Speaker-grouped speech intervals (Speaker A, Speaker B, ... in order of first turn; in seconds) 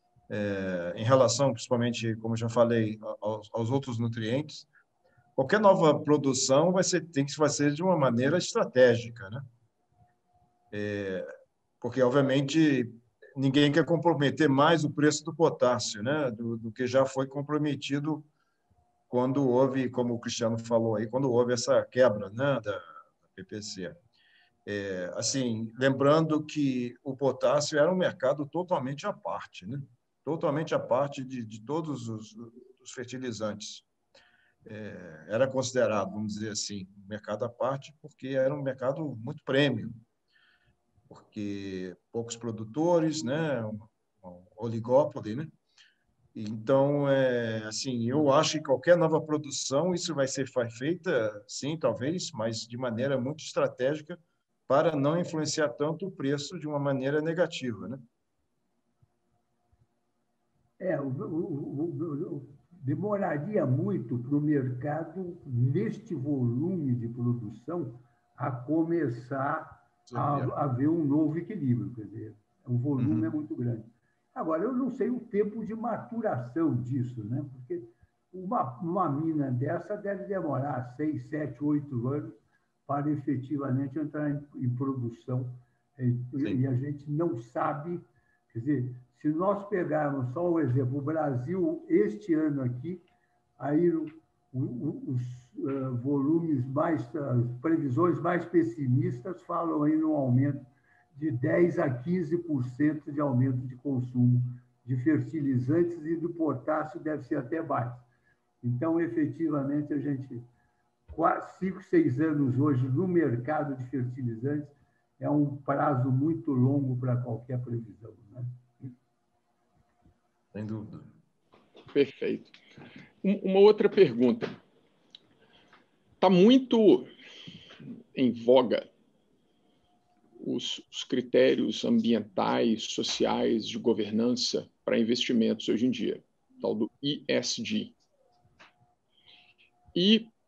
Speaker A: 0.3-4.7, 5.3-9.4, 10.7-11.3, 11.8-18.3, 19.1-24.0, 24.6-33.9, 34.6-40.0, 41.1-45.5, 46.3-58.0, 70.1-70.5, 73.0-73.3, 120.5-121.0
Speaker B: 60.8-93.0, 93.6-108.0, 108.6-110.5, 111.1-118.5
Speaker C: 121.9-122.5, 123.2-124.6, 126.2-127.1, 128.1-128.9, 130.4-137.9, 139.9-140.3